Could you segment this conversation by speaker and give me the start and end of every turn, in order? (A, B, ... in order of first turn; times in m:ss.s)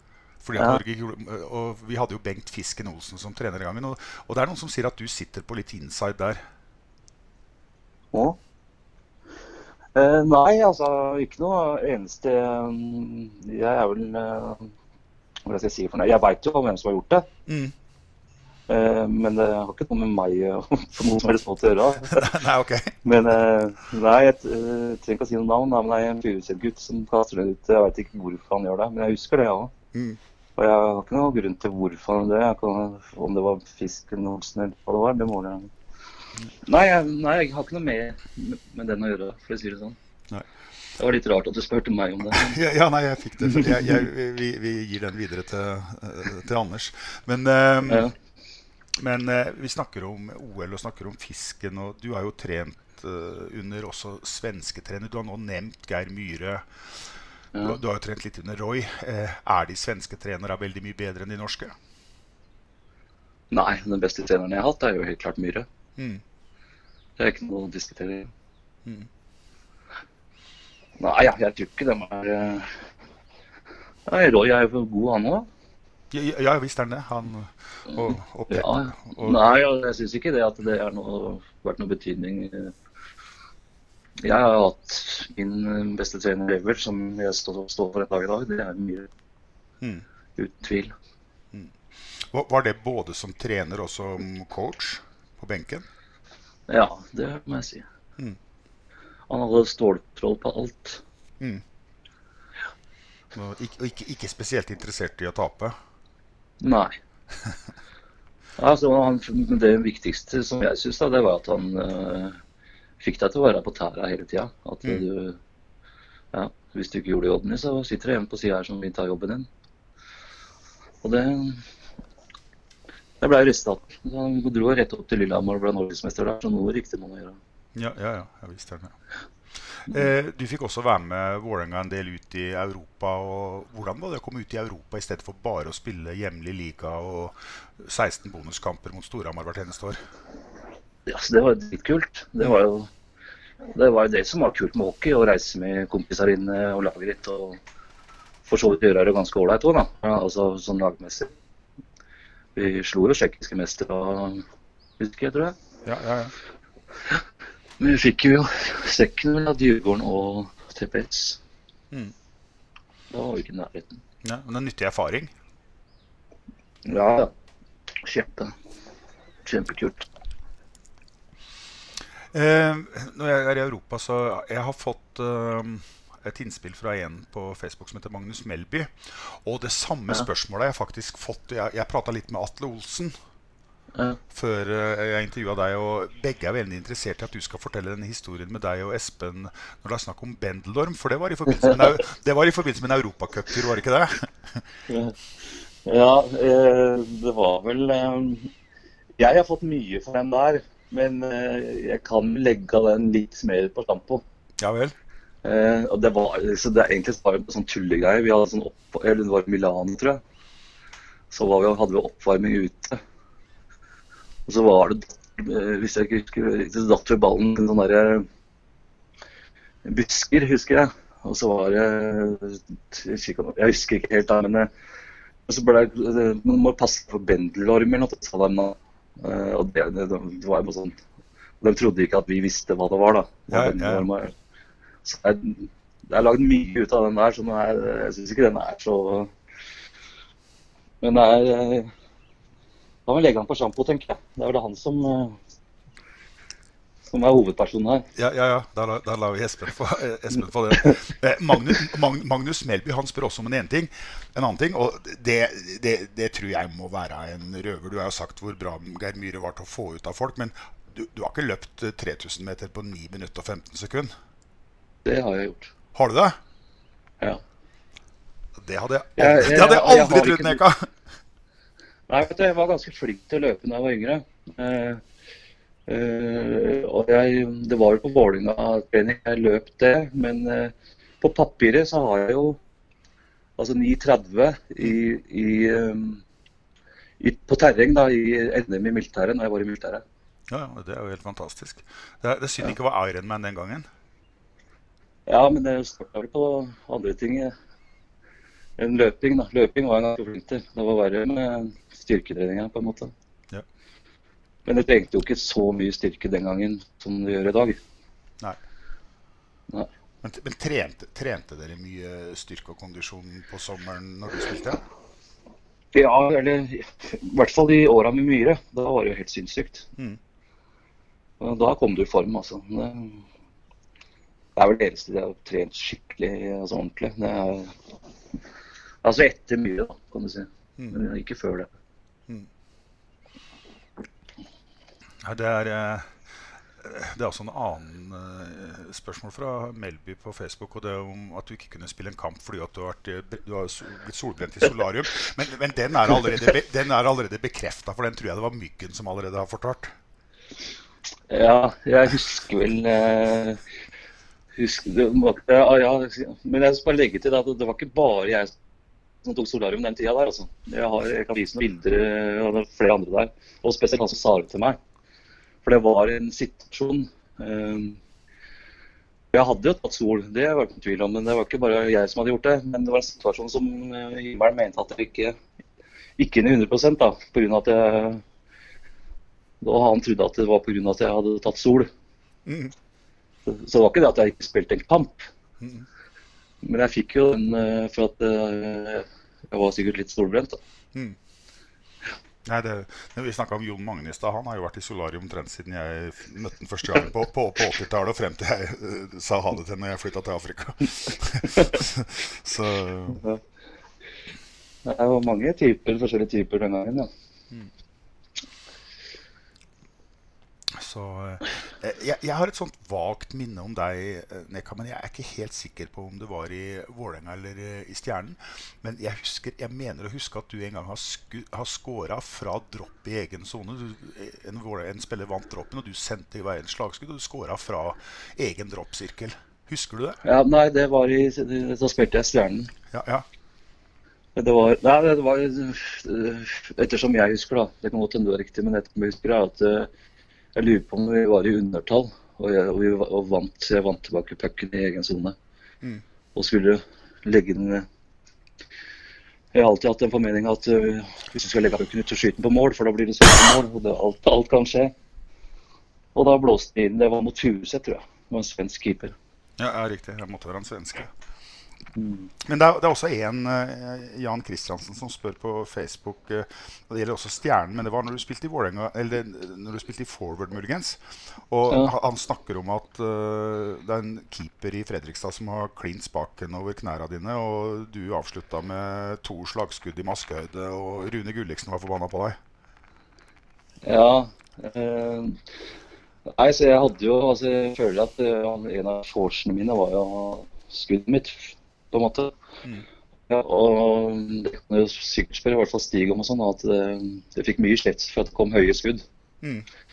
0:00.4-0:06.4 A
0:00.6-0:00.8 B
0:08.1-0:08.4 B
0:10.0-0:14.7 B
0:15.5-0:17.3 B
0:17.5-0:17.7 A
0:18.7-0:22.3 B
0:22.1-0:23.0 A
0:23.0-0:29.7 B
0:29.9-0:30.2 A
0:30.6-0:35.7 B
0:36.6-0:40.0 B
0:41.0-0:42.6 B
0:42.3-0:48.1 A
0:43.4-0:44.0 B
0:47.9-0:48.1 B
0:49.0-0:56.7 A
0:57.5-0:57.8 B
0:57.6-1:01.8 A
1:03.5-1:05.7 B
1:06.0-1:06.2 A
1:07.2-1:08.3 B
1:11.0-1:12.7 B
1:14.1-1:15.5 B
1:16.1-1:19.4 A
1:17.9-1:22.7 B
1:24.2-1:29.1 B
1:30.4-1:30.9 B
1:31.5-1:35.9 A
1:36.7-1:37.8 B
1:39.3-1:41.0 B
1:43.3-1:45.8 A
1:46.6-1:46.9 B
1:48.6-1:52.4 B
1:53.0-1:55.4 B
1:56.3-1:59.5 B
2:01.0-2:01.6 B
2:03.2-2:07.4 B
2:07.8-2:09.0 A
2:09.8-2:20.0 A
2:21.1-2:22.9 B
2:23.8-2:27.6 B
2:28.5-2:31.3 B
2:32.6-2:34.4 B
2:35.0-2:35.6 B
2:35.8-2:36.3 A
2:37.8-2:41.4 B
2:43.1-2:44.0 B
2:44.2-2:45.3 A
2:46.9-2:47.3 B
2:48.0-2:48.5 B
2:49.4-2:50.1 B
2:52.3-3:03.1 A
3:04.3-3:14.6 A
3:14.9-3:15.1 B
3:15.9-3:18.5 B
3:19.2-3:24.2 B
3:24.6-3:25.0 A
3:25.4-3:30.2 B
3:31.3-3:33.0 B
3:34.5-3:38.3 B
3:39.8-3:44.7 B
3:45.5-3:51.0 B
3:51.6-3:54.3 B
3:53.5-3:54.1 A
3:55.0-3:59.3 B
4:01.0-4:01.9 B
4:03.1-4:05.4 B
4:07.1-4:08.0 B
4:08.2-4:24.1 A
4:25.0-4:25.7 B
4:25.9-4:26.4 A
4:28.6-4:30.9 A
4:29.2-4:30.6 B
4:32.1-4:35.0 B
4:35.9-4:42.6 B
4:43.6-4:46.2 B
4:47.2-4:50.0 B
4:50.5-4:53.9 A
4:55.3-4:57.5 B
4:58.8-5:03.1 B
5:04.7-5:07.8 B
5:10.2-5:14.8 A
5:15.9-5:19.9 B
5:21.4-5:23.2 B
5:24.6-5:27.7 B
5:29.0-5:31.7 B
5:35.2-5:36.2 A
5:36.8-5:49.9 A
5:51.3-5:53.6 B
5:54.6-5:58.5 B
5:59.2-6:04.8 B
6:05.6-6:08.0 B
6:09.3-6:15.4 B
6:16.2-6:18.2 B
6:19.6-6:21.9 B
6:22.5-6:22.7 A
6:23.5-6:25.3 B
6:25.6-6:25.9 A
6:26.6-6:30.6 B
6:32.4-6:43.2 A
6:44.8-6:47.1 B
6:50.7-7:10.2 A
7:10.2-7:12.7 B
7:12.9-7:13.2 A
7:14.4-7:19.9 B
7:20.6-7:25.4 B
7:26.4-7:27.9 B
7:29.5-7:34.9 B
7:36.2-7:39.1 B
7:39.6-7:41.1 A
7:42.0-7:42.3 B
7:42.4-8:02.4 A
8:03.8-8:05.4 B
8:06.3-8:12.3 B
8:13.3-8:19.0 B